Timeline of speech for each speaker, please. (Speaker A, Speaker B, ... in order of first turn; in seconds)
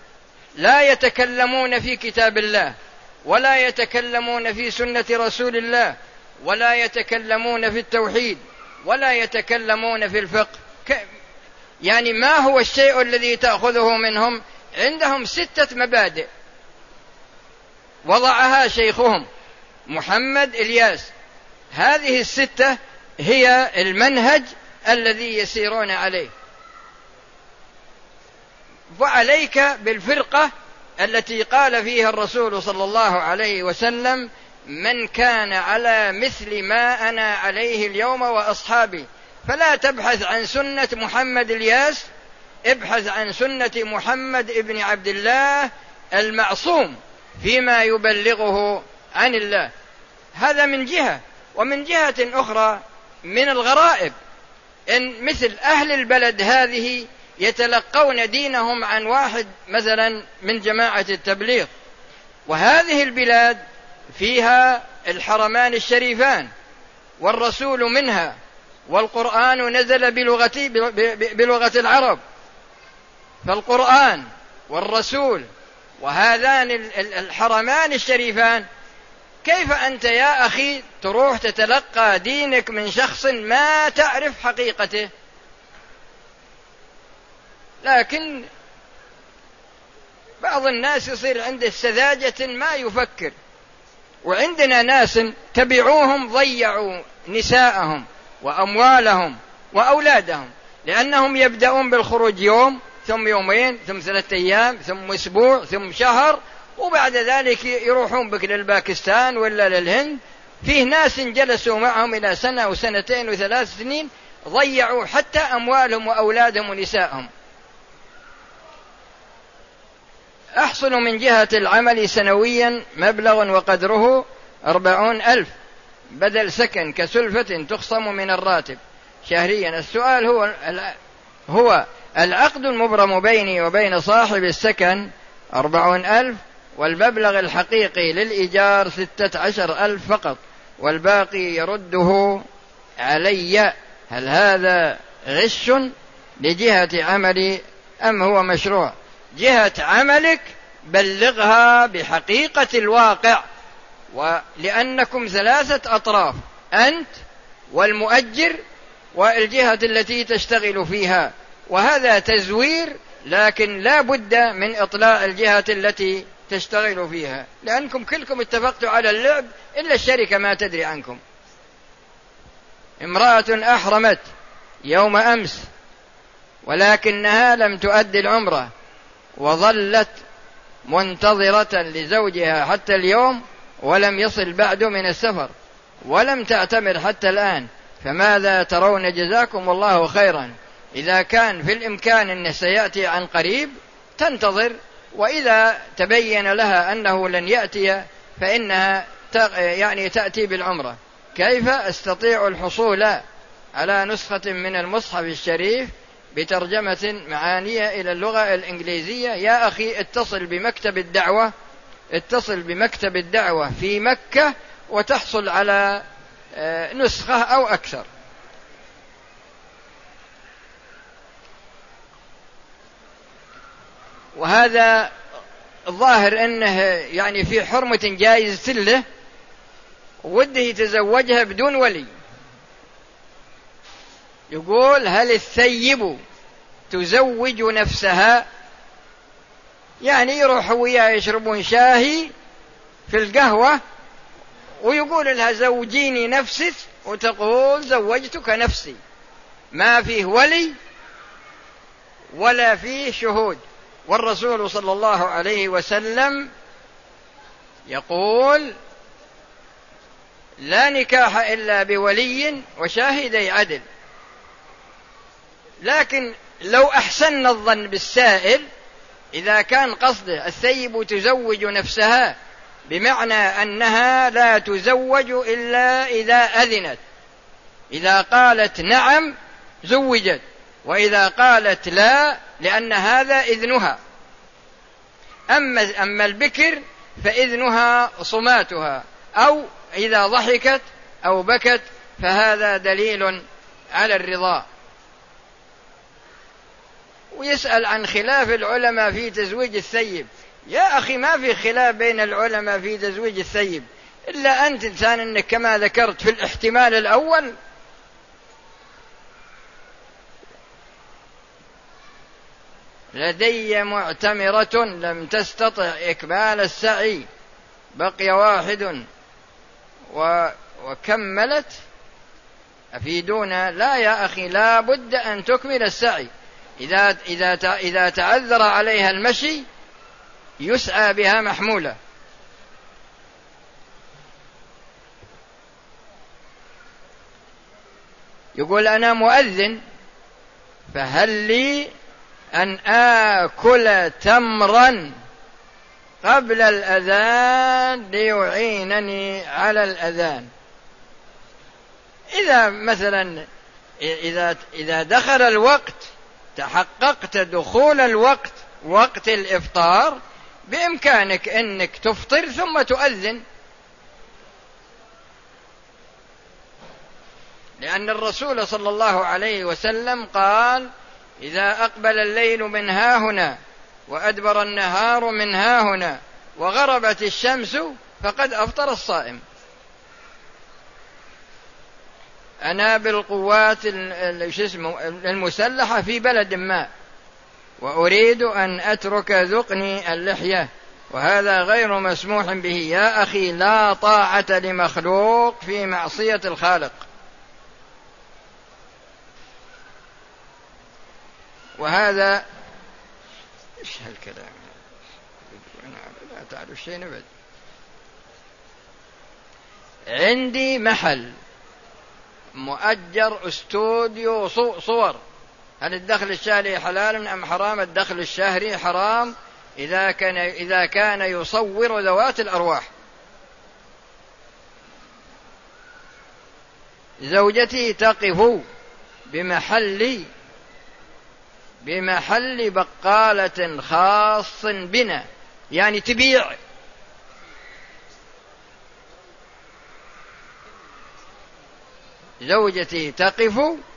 Speaker A: 0.6-2.7, 3.2-11.1, 11.8-16.3, 18.0-19.2, 19.9-21.1, 21.7-26.3, 28.9-42.1, 42.6-49.7, 50.3-54.1, 54.9-61.7, 62.5-63.6, 64.1-66.5, 67.2-68.3, 68.9-72.2, 73.4-75.5, 76.0-78.7, 79.4-85.1, 87.8-88.5, 90.4-93.3, 94.2-117.3, 120.5-125.5, 126.1-131.0, 131.5-142.4, 143.0-153.4, 154.1-157.2, 157.7-158.6, 159.1-171.2, 173.0-174.2, 174.8-175.7, 176.6-178.7, 179.3-180.2, 180.8-185.5, 186.0-203.2, 203.7-211.5, 212.1-218.1, 224.3-225.1, 225.8-229.0, 230.2-232.1, 234.5-236.2, 236.9-238.4, 240.0-242.3, 243.1-243.8, 244.8-249.0, 249.7-250.7, 252.3-256.5, 257.9-258.7, 260.6-263.8, 265.8-268.6, 269.3-272.4, 272.9-277.0, 277.9-284.0, 285.5-294.6, 297.3-307.6, 313.1-317.3, 317.9-319.1, 320.1-321.8, 322.9-329.6, 330.6-331.9, 338.6-339.8, 340.9-341.9, 342.5-345.1, 346.2-350.5, 352.3-353.4, 354.0-363.4, 367.8-379.4, 382.6-386.9, 387.8-397.1, 401.8-402.4, 403.8-404.6, 405.5-407.2, 410.1-411.4, 412.5-415.2, 415.8-422.9, 427.2-428.6, 429.3-430.3, 431.8-436.6, 442.4-443.8